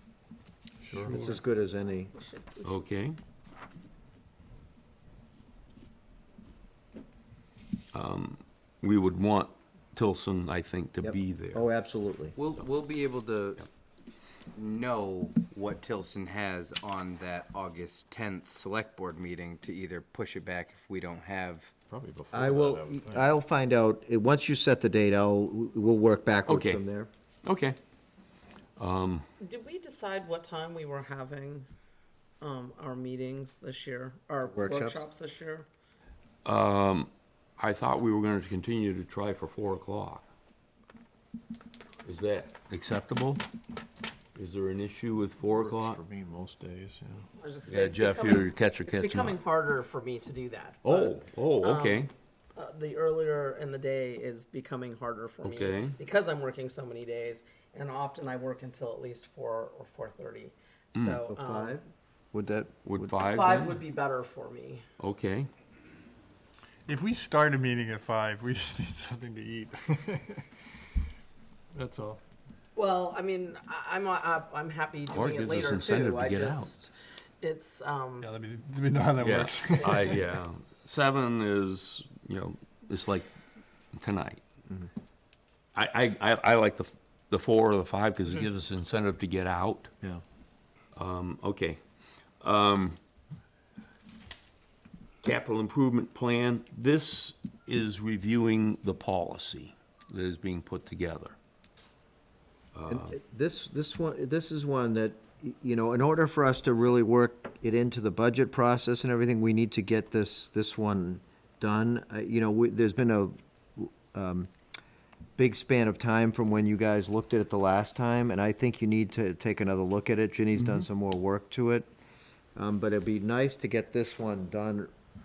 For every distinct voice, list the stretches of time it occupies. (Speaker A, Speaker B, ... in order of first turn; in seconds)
Speaker A: 0.8-1.3, 21.9-23.3, 45.5-47.3
Speaker B: 1.0-2.1, 11.0-12.3, 22.3-27.1, 34.4-35.0, 61.3-63.1, 102.9-114.5, 115.4-121.9, 122.5-124.9
Speaker C: 2.1-2.8, 29.4-31.7, 32.4-35.7, 47.4-61.8, 63.2-64.8, 72.7-78.3, 79.8-80.3
Speaker D: 2.6-3.2, 7.9-11.6, 26.5-26.8, 27.4-27.8, 28.8-29.2, 36.4-40.2, 42.0-43.4, 44.3-46.0, 47.6-49.4, 50.8-52.1, 55.4-56.0, 62.8-63.8, 65.0-65.5, 75.1-76.7, 79.2-83.3, 83.9-84.4, 85.7-89.9, 91.0-91.8, 92.4-93.0, 95.2-101.3, 102.7-103.1
Speaker E: 12.4-13.6, 14.6-21.7
Speaker F: 66.9-70.6, 71.7-72.2, 78.2-80.2